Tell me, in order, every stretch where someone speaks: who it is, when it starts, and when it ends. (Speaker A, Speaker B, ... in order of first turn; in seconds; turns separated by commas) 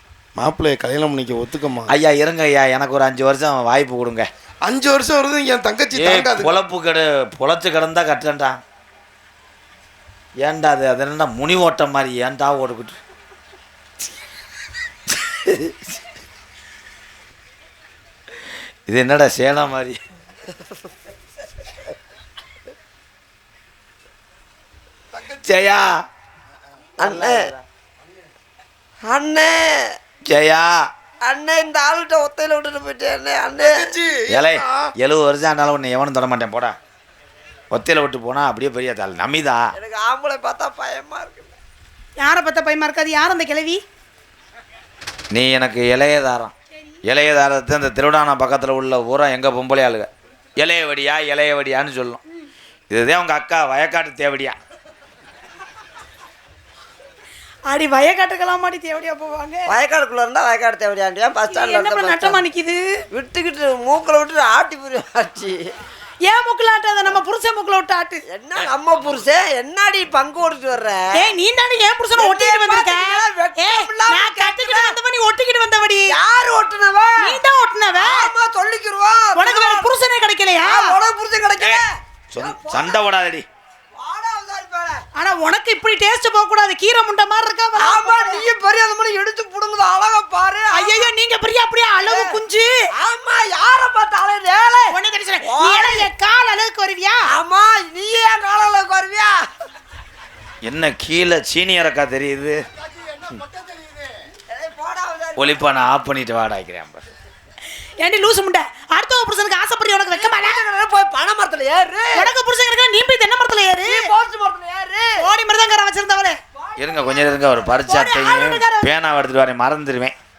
Speaker A: 0.4-1.9, Speaker B: 1.9-4.3, Speaker A: 4.7-6.6, Speaker B: 5.9-8.6, Speaker B: 10.4-13.0, Speaker B: 18.9-20.0, Speaker A: 25.1-25.5, Speaker B: 25.4-25.9, Speaker C: 27.0-27.5, Speaker C: 29.0-29.6, Speaker B: 30.2-30.7, Speaker C: 31.2-33.8, Speaker A: 33.6-34.9, Speaker B: 34.3-36.8, Speaker B: 37.7-39.7, Speaker C: 39.8-41.6, Speaker D: 42.2-43.8, Speaker B: 45.3-46.5, Speaker B: 47.0-52.2, Speaker B: 52.9-54.6, Speaker D: 57.7-59.8, Speaker C: 59.7-62.4, Speaker D: 61.5-62.8, Speaker C: 63.1-65.6, Speaker D: 66.2-68.2, Speaker C: 68.3-71.0, Speaker D: 71.1-76.1, Speaker C: 72.2-74.9, Speaker C: 76.1-77.4, Speaker D: 77.2-78.3, Speaker C: 78.0-79.9, Speaker D: 79.3-80.9, Speaker C: 80.6-83.0, Speaker B: 82.3-83.5, Speaker C: 84.0-85.0, Speaker D: 85.2-88.5, Speaker C: 87.8-91.1, Speaker D: 90.7-92.7, Speaker C: 92.0-92.4, Speaker C: 93.0-96.1, Speaker D: 94.9-97.3, Speaker C: 97.2-99.4, Speaker B: 100.6-102.6, Speaker C: 104.5-105.7, Speaker B: 105.4-107.0, Speaker D: 108.0-110.6, Speaker C: 110.1-112.3, Speaker D: 112.1-114.1, Speaker C: 113.8-115.1, Speaker D: 115.2-116.4, Speaker C: 116.6-117.8, Speaker B: 116.8-120.1, Speaker D: 117.8-118.9